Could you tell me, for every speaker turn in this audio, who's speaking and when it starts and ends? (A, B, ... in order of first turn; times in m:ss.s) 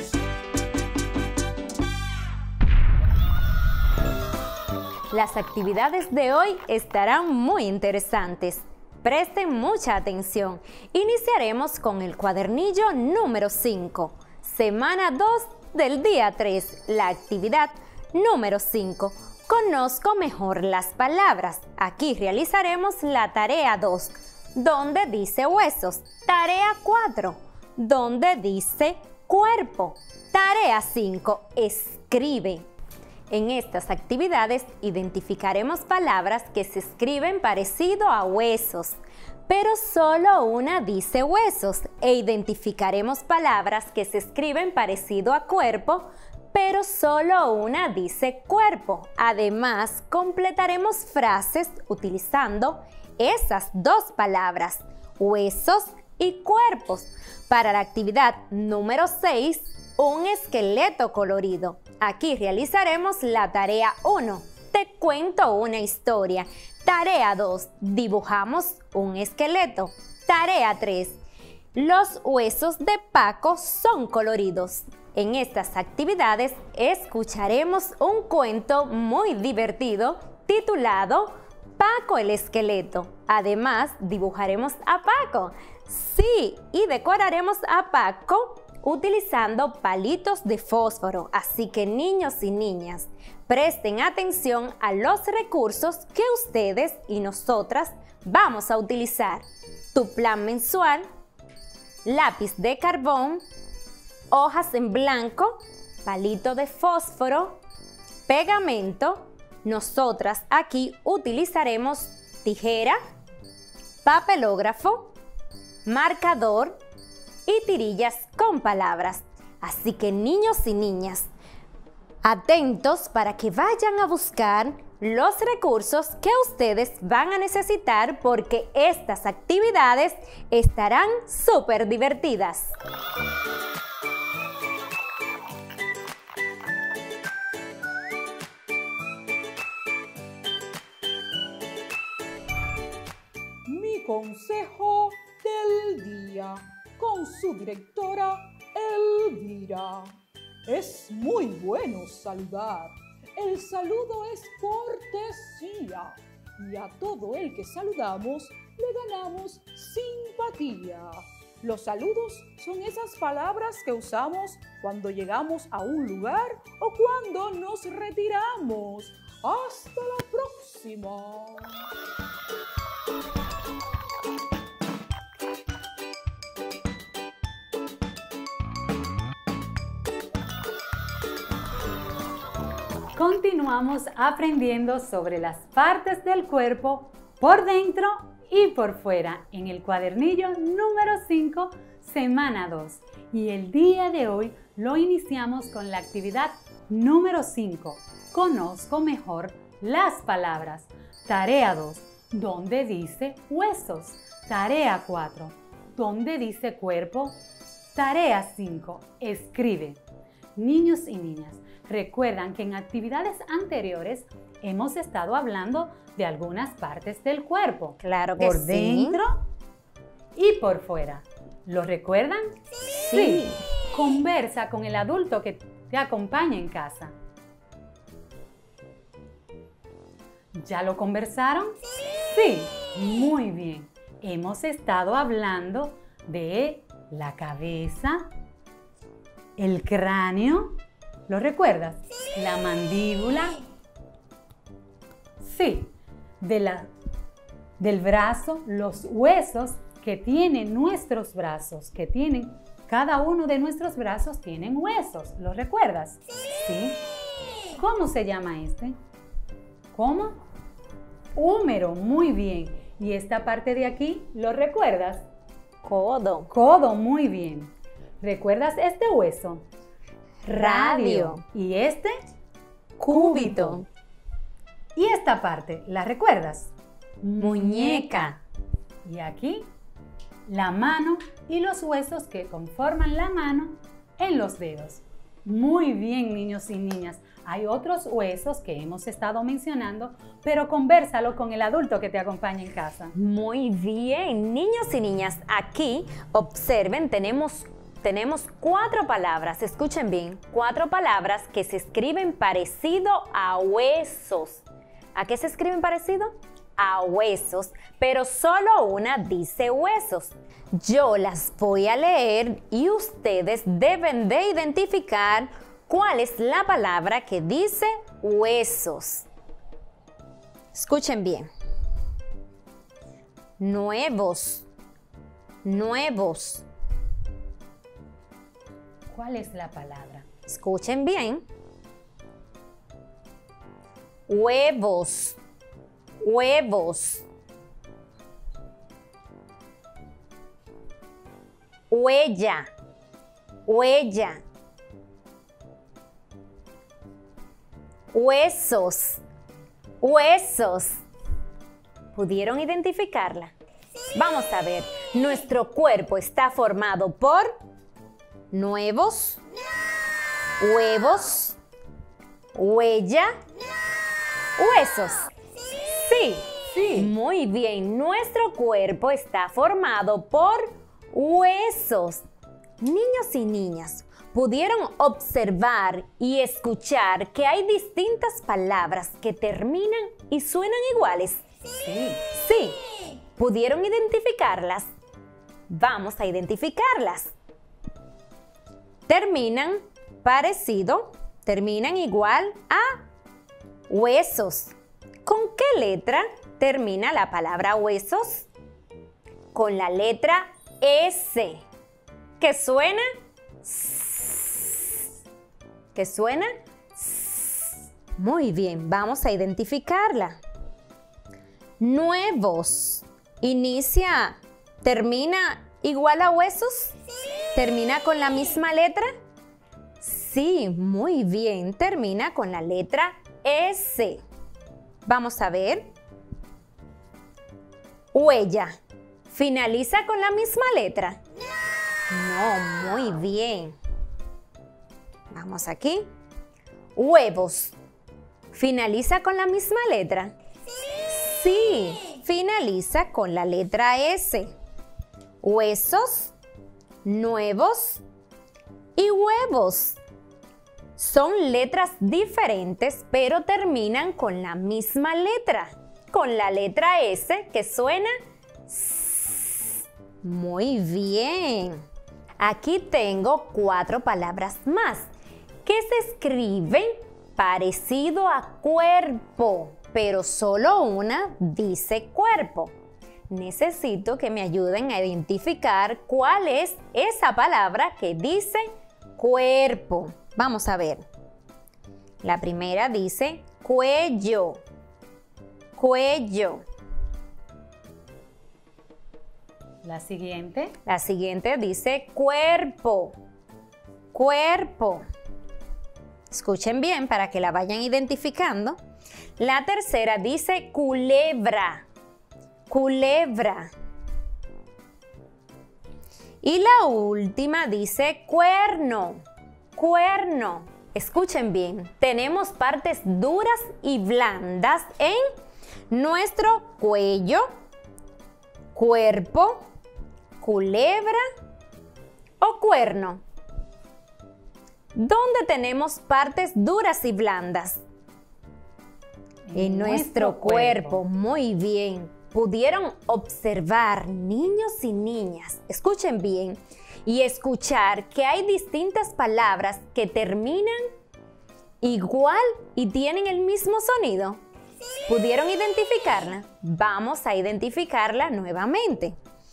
0:05.1-0:32.7 A
0:33.3-1:11.2 A
1:11.8-1:41.1 A
1:42.0-1:43.4 A
1:44.3-1:47.6 A
1:48.3-1:53.0 A
1:54.0-1:55.2 A
1:55.8-1:56.8 A
1:57.5-2:01.3 A
2:02.2-2:12.7 A
2:23.7-2:51.8 B
3:03.2-3:27.4 C
3:27.9-3:30.0 C
3:30.6-3:39.4 C
3:38.0-3:39.2 A
3:40.4-3:42.4 C
3:42.9-3:43.6 A
3:43.1-3:47.1 C
3:50.5-3:58.3 C
3:59.6-4:03.6 C
4:05.4-4:06.9 C
4:07.8-4:17.0 C
4:17.8-4:19.0 C
4:19.9-4:20.4 C
4:21.4-4:25.2 C
4:25.8-4:26.5 A
4:26.5-4:29.7 C
4:30.4-4:32.1 C
4:30.5-4:31.4 A
4:33.0-4:33.9 A
4:33.1-4:33.8 C
4:35.0-4:38.4 C
4:37.4-4:38.4 A
4:39.0-4:39.7 C
4:40.5-4:53.1 C
4:53.1-5:04.6 A
5:05.2-5:19.3 A
5:20.7-5:21.5 A
5:23.6-5:24.7 A
5:25.6-5:26.7 A
5:29.1-5:30.3 C
5:30.5-5:31.4 A
5:34.3-5:35.4 A
5:36.2-5:37.2 A
5:41.9-5:42.7 A
5:43.7-5:44.4 A
5:48.1-5:49.2 A
5:50.0-5:51.0 A
5:52.1-5:53.5 A
5:54.1-5:57.6 A
5:58.5-5:59.4 A
6:00.6-6:01.6 A
6:02.5-6:03.3 A
6:04.6-6:05.3 A
6:05.9-6:12.2 A
6:06.7-6:07.1 C
6:12.8-6:21.4 A
6:21.8-6:22.2 C
6:22.3-6:22.8 A
6:23.4-6:24.9 A
6:25.7-6:27.3 A
6:29.1-6:33.0 A
6:33.9-6:38.5 A
6:39.5-6:41.6 A
6:42.4-6:43.1 A
6:43.6-6:45.0 A
6:45.9-6:50.4 A
6:51.8-6:56.9 A
6:57.5-6:59.1 A
7:00.0-7:04.2 A
7:05.1-7:05.9 A
7:08.1-7:08.8 A
7:09.3-7:11.2 A
7:12.1-7:13.8 A
7:15.3-7:16.1 A
7:17.0-7:17.8 A
7:18.5-7:20.3 A
7:21.1-7:24.6 A
7:25.4-7:26.3 A
7:27.0-7:28.0 A
7:29.0-7:30.0 A
7:31.0-7:38.2 A
7:38.7-7:41.8 A
7:42.4-7:45.1 A
7:45.6-7:52.8 A
7:53.3-8:01.1 A
8:02.2-8:04.6 A
8:05.8-8:06.6 A
8:09.8-8:10.8 C
8:10.9-8:13.2 A
8:14.1-8:15.1 A
8:16.3-8:18.8 A
8:19.4-8:21.9 A
8:22.7-8:23.7 A
8:26.4-8:29.2 A
8:29.8-8:35.3 A
8:35.9-8:37.5 A
8:38.7-8:39.7 A
8:40.4-8:41.2 A
8:42.4-8:43.2 A
8:44.9-8:47.8 A
8:49.5-8:51.0 C
8:49.5-9:00.9 A
9:01.8-9:04.4 A
9:05.1-9:09.2 A